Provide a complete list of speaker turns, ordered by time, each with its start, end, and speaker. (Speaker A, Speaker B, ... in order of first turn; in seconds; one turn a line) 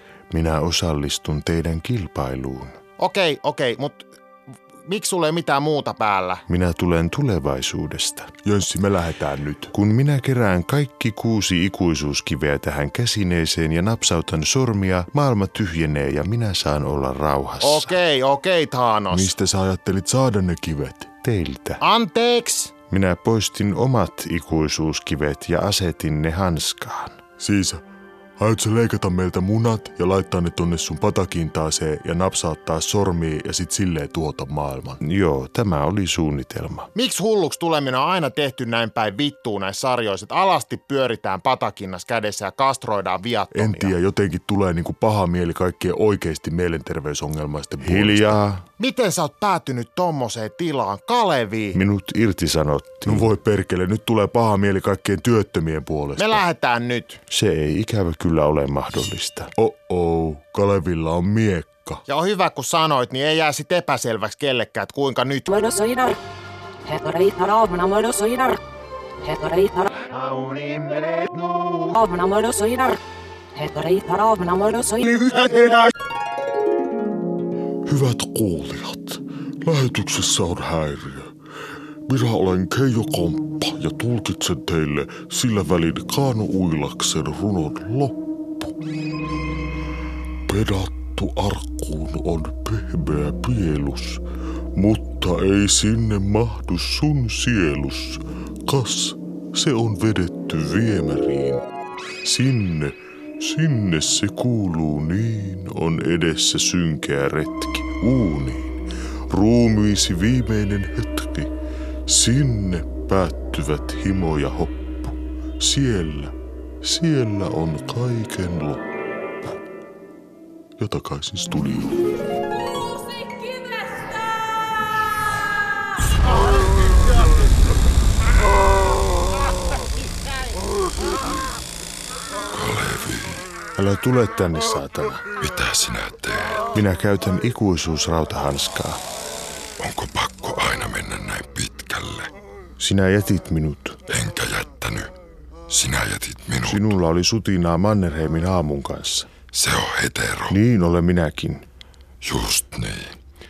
Speaker A: 0.3-2.8
Speaker B: 3.0-4.1
Speaker B: 4.8-6.4
Speaker A: 6.5-8.3
Speaker C: 8.4-9.7
Speaker A: 9.7-17.9
Speaker B: 17.6-19.4
Speaker C: 19.1-21.1
Speaker A: 21.2-21.8
Speaker B: 21.8-22.8
Speaker A: 22.9-27.2
Speaker C: 27.4-27.8
Speaker C: 28.4-35.0
Speaker A: 35.0-36.9
Speaker B: 37.0-44.0
Speaker C: 43.5-48.4
Speaker A: 47.8-48.6
Speaker B: 48.8-51.8
Speaker A: 51.8-53.3
Speaker C: 53.1-56.4
Speaker B: 56.2-57.2
Speaker A: 57.3-59.5
Speaker C: 59.6-62.0
Speaker B: 62.1-65.5
Speaker D: 65.5-66.2
Speaker D: 66.8-68.6
Speaker D: 69.2-70.0
Speaker D: 71.9-73.0
Speaker D: 73.5-75.5
Speaker C: 75.6-75.9
Speaker C: 77.9-81.3
Speaker C: 82.1-88.3
Speaker C: 90.5-94.2
Speaker C: 94.8-101.6
Speaker C: 102.2-108.8
Speaker C: 109.3-111.5
Speaker C: 112.1-115.0
Speaker C: 115.6-118.8
Speaker C: 120.8-121.9
Speaker E: 132.5-133.5
Speaker A: 133.8-135.2
Speaker E: 135.4-136.7
Speaker A: 136.7-139.0
Speaker E: 139.8-142.3
Speaker A: 142.8-144.0
Speaker E: 144.1-145.1
Speaker E: 145.7-146.9
Speaker A: 146.7-149.3
Speaker E: 149.5-150.6
Speaker A: 150.5-151.6
Speaker E: 152.2-153.2